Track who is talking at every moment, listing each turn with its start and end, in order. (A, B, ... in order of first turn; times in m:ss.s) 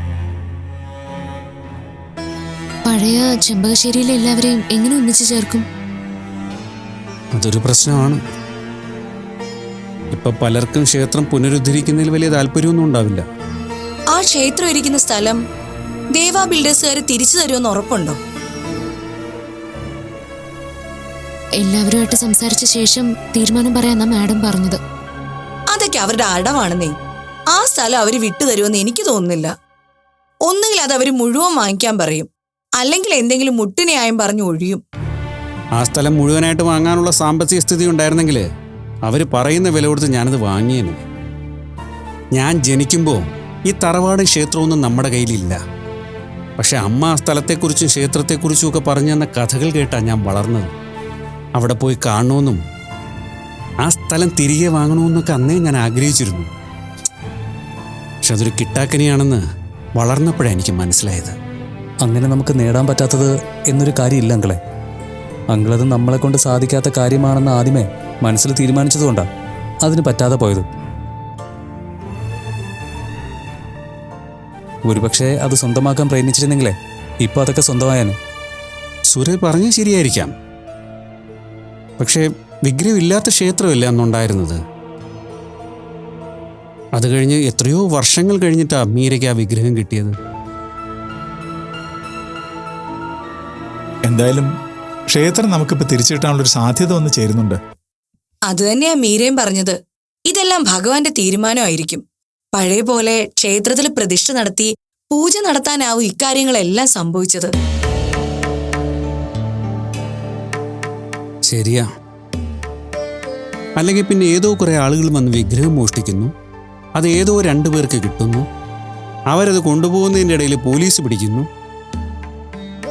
0:02.9-0:05.6 A
0:07.4-0:08.2 B
0:10.1-0:13.2 B
0:14.1-0:15.4 C
0:16.1-0:18.2 C
0:21.6-0:24.8 A
0:25.7-0:26.9 C
0:27.5-0:29.5 C
0:30.5-0:32.3 C
0:32.8-0:34.8 C
0:35.8-0:38.4 B
0:39.0-0:41.0 B
0:42.4-0:45.6 B
0:46.6-0:50.7 B
0:51.6-0:52.6 B
0:53.8-0:56.5 B
0:58.2-0:59.4 B
1:00.0-1:01.3 B
1:02.0-1:04.6 D
1:05.5-1:09.2 D
1:09.8-1:10.6 D
1:14.9-1:18.1 D
1:19.1-1:20.3 B
1:22.0-1:24.6 B
1:27.0-1:30.1 B
1:34.1-1:34.5 E
1:35.1-1:37.6 E
1:38.5-1:47.5 C
1:51.5-1:51.8 B
1:53.8-1:56.3 B
1:57.0-1:58.4 B
1:59.3-2:01.5 B